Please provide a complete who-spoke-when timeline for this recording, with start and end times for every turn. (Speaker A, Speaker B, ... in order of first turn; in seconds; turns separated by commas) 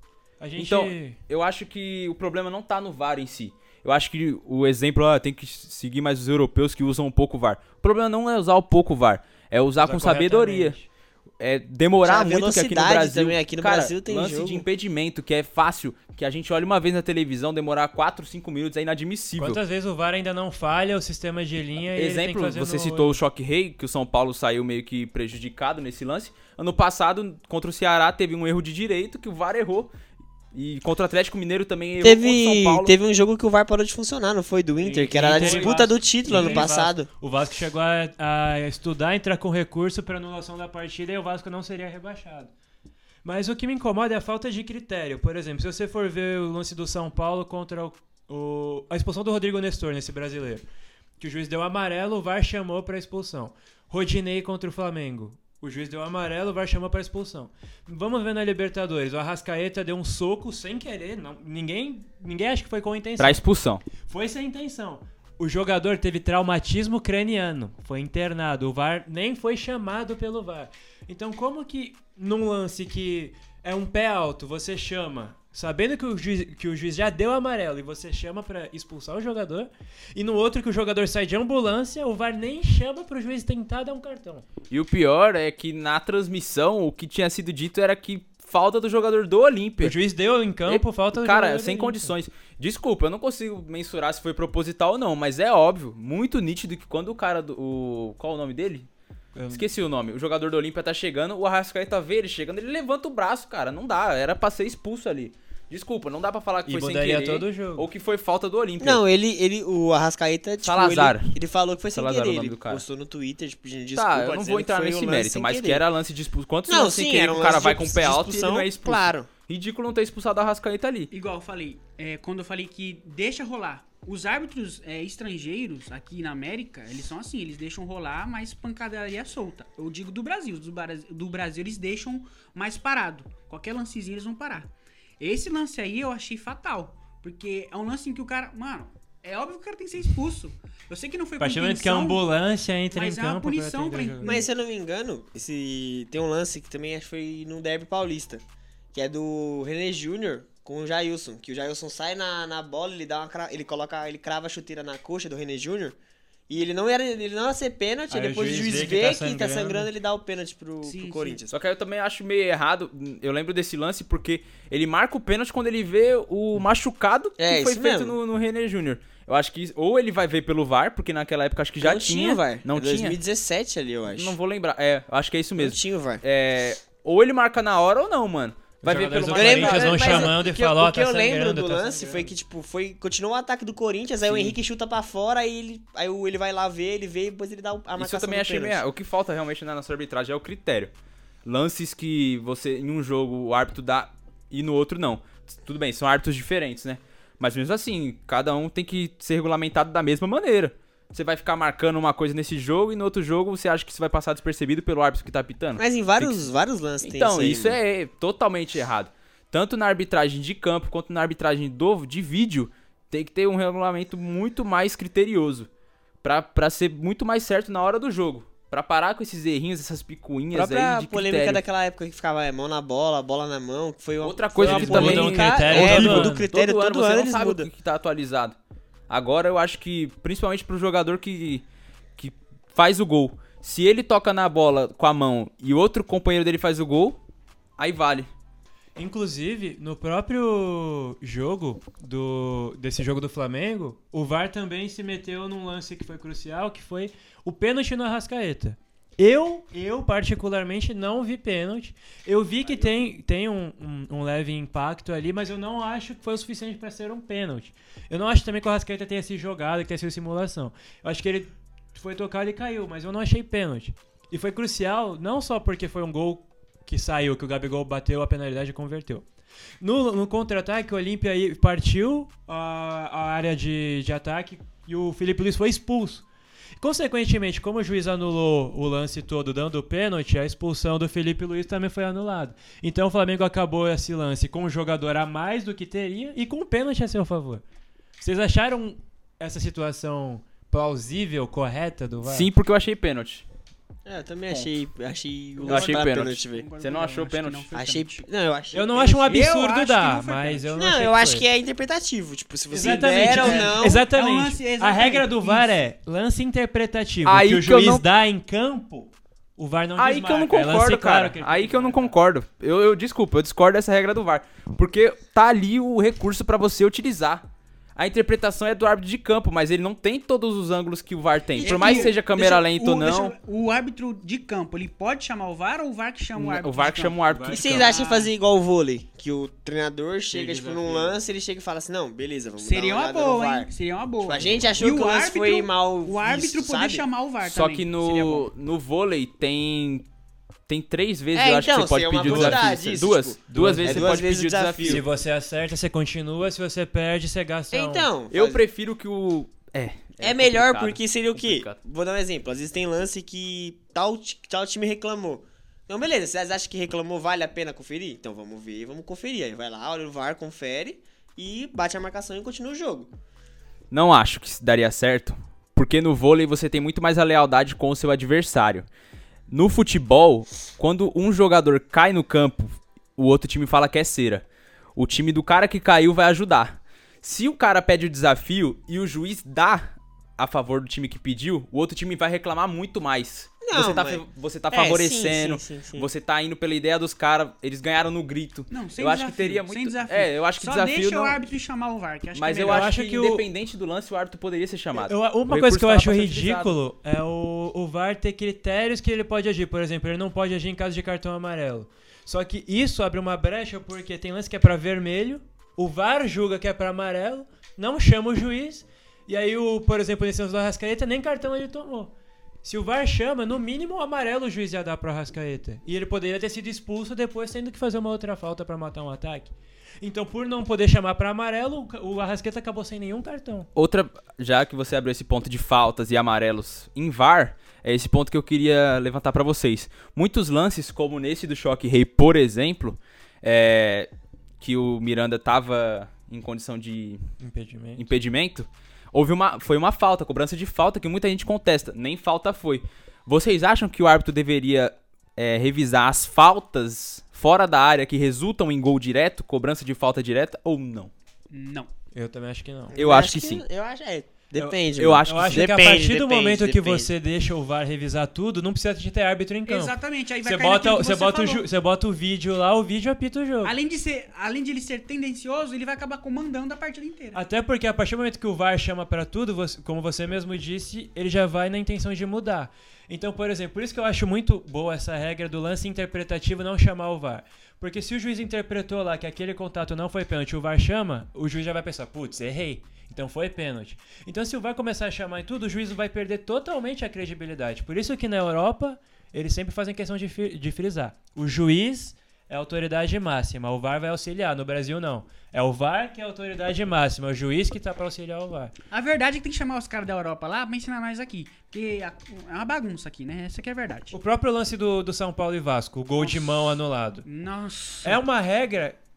Speaker A: 0.4-1.2, Speaker B: 0.6-10.8, Speaker A: 9.8-10.9, Speaker B: 11.4-19.6, Speaker C: 12.0-14.7, Speaker A: 19.4-23.2, Speaker B: 21.9-29.9, Speaker B: 30.5-32.9, Speaker C: 32.0-37.1, Speaker A: 34.8-42.5, Speaker B: 35.1-35.8, Speaker B: 36.4-36.6, Speaker A: 43.2-50.6, Speaker A: 51.2-63.4, Speaker B: 63.2-63.8, Speaker A: 64.0-84.4, Speaker B: 84.7-90.0, Speaker A: 89.8-92.1, Speaker B: 90.7-98.9, Speaker A: 99.4-99.6, Speaker B: 99.5-109.0, Speaker A: 106.7-107.9, Speaker C: 108.8-115.8, Speaker B: 110.6-111.3, Speaker B: 111.9-112.8, Speaker B: 113.9-121.1, Speaker C: 116.7-119.3, Speaker D: 121.1-142.2, Speaker A: 141.4-144.4, Speaker D: 142.9-144.5, Speaker C: 144.2-148.4, Speaker C: 148.9-155.9, Speaker C: 156.5-161.6, Speaker A: 158.1-159.9, Speaker D: 160.8-161.4, Speaker B: 161.5-173.2, Speaker C: 167.4-168.2, Speaker C: 171.8-174.3, Speaker B: 174.1-180.3, Speaker C: 175.6-176.2, Speaker A: 178.8-182.3, Speaker C: 179.3-188.8, Speaker B: 184.3-184.6, Speaker B: 188.0-190.9, Speaker B: 191.4-206.4, Speaker C: 205.8-207.8, Speaker B: 207.0-215.7, Speaker B: 216.2-221.6, Speaker C: 220.5-227.7, Speaker B: 224.2-228.6, Speaker A: 224.6-226.5, Speaker B: 229.1-231.7, Speaker B: 232.2-237.2, Speaker B: 237.8-238.3, Speaker A: 238.9-269.2, Speaker A: 269.8-276.3, Speaker A: 276.8-287.6, Speaker A: 288.2-292.5, Speaker B: 292.2-293.4, Speaker C: 294.1-296.7, Speaker D: 295.6-298.3, Speaker B: 295.6-297.7, Speaker C: 297.7-299.4, Speaker A: 298.7-301.4, Speaker D: 299.2-300.7, Speaker C: 300.7-304.1, Speaker A: 302.7-312.1, Speaker D: 302.7-305.7, Speaker B: 307.2-308.1, Speaker B: 310.0-323.3, Speaker D: 321.6-328.3, Speaker C: 321.6-322.1, Speaker B: 326.4-327.9, Speaker A: 327.3-327.8, Speaker C: 327.5-333.7, Speaker A: 330.3-331.2, Speaker D: 332.6-338.5, Speaker C: 334.2-337.1, Speaker B: 337.4-340.1, Speaker B: 340.7-345.0, Speaker C: 341.3-345.0, Speaker A: 342.2-342.8, Speaker A: 343.5-344.2, Speaker A: 344.8-348.1, Speaker C: 347.7-348.6, Speaker B: 348.3-351.8, Speaker C: 350.2-363.1, Speaker B: 363.9-368.9, Speaker B: 369.5-374.4, Speaker B: 374.9-391.4, Speaker C: 383.6-386.1, Speaker D: 388.7-392.9, Speaker B: 392.3-396.8, Speaker A: 392.7-393.5, Speaker A: 395.0-412.1, Speaker A: 412.6-423.7, Speaker B: 423.8-434.1, Speaker B: 434.6-437.2, Speaker A: 437.4-438.1, Speaker B: 438.0-451.1, Speaker D: 451.5-451.9, Speaker A: 452.1-453.0, Speaker C: 452.9-457.1, Speaker B: 452.9-453.6, Speaker A: 454.6-463.7, Speaker B: 455.0-455.7, Speaker D: 459.7-461.7, Speaker D: 463.6-467.4, Speaker A: 467.3-498.7, Speaker D: 498.9-504.1, Speaker A: 504.1-507.2, Speaker D: 506.2-506.5, Speaker D: 507.2-508.2, Speaker A: 508.0-509.0